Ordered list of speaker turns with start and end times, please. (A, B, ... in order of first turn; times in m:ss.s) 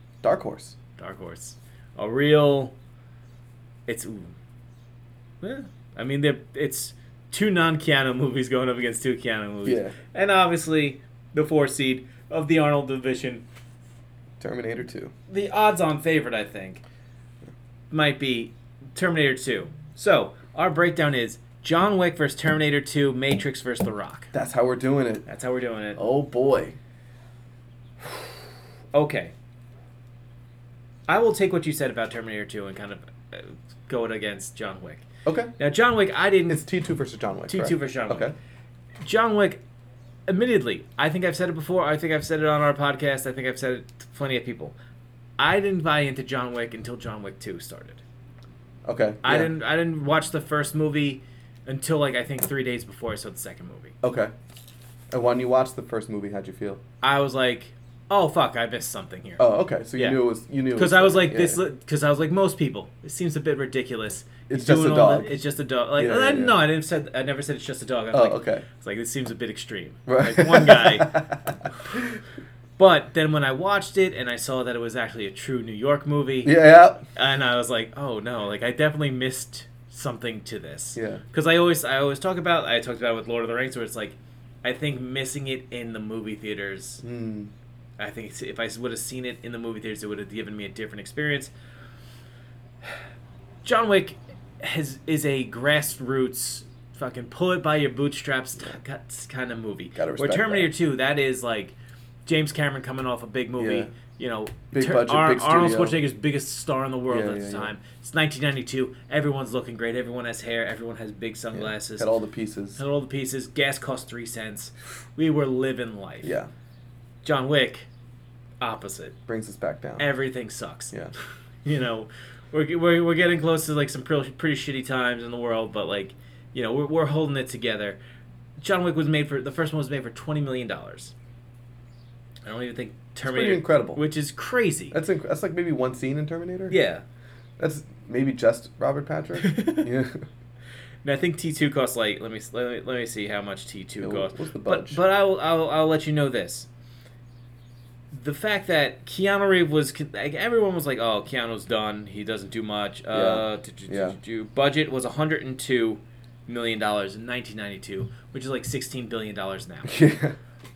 0:00.2-0:00.8 A
0:01.0-0:02.7 B
0:03.9-0:04.3 B
0:05.4-0:13.4 B
0:09.6-0:10.0 A
0:14.4-0:15.1 A
0:15.3-0:16.8 B
0:17.9-0:24.3 B
0:24.3-0:25.2 A
0:25.2-0:26.0 B
0:26.0-0:26.8 A
0:28.9-0:29.3 B
0:31.1-0:35.0 B
0:35.2-0:35.5 A
0:35.6-0:36.6 B
0:36.5-0:38.3 A
0:37.5-0:38.3 B
0:39.0-0:39.6 B
0:40.3-0:44.8 B
0:45.4-0:48.0 B
0:48.8-0:49.5 A
0:49.2-0:53.9 B
0:54.0-0:54.3 A
0:55.1-0:56.8 A
0:57.0-1:00.2 B
0:59.4-1:01.6 A
1:00.7-1:11.2 B
1:04.5-1:05.3 A
1:06.0-1:06.6 A
1:08.1-1:08.6 A
1:10.1-1:12.2 A
1:12.8-1:27.0 B
1:16.4-1:17.0 A
1:20.9-1:21.2 A
1:27.0-1:27.5 A
1:28.0-1:31.5 B
1:33.6-1:52.1 B
1:39.9-1:40.7 A
1:43.6-1:43.9 A
1:44.7-1:46.0 A
1:47.1-1:47.7 A
1:51.5-1:52.8 A
1:52.8-1:56.3 B
1:56.2-1:56.5 A
1:57.2-1:57.9 B
1:58.6-1:59.2 B
1:59.3-2:00.1 A
2:00.0-2:00.9 B
2:01.6-2:08.0 B
2:08.6-2:11.1 B
2:12.4-2:15.0 B
2:13.2-2:14.0 A
2:14.9-2:16.8 A
2:16.7-2:17.0 B
2:17.6-2:20.2 A
2:19.4-2:19.9 B
2:21.0-2:26.7 B
2:24.0-2:25.0 A
2:28.1-2:40.1 B
2:33.1-2:34.2 A
2:39.9-2:40.3 A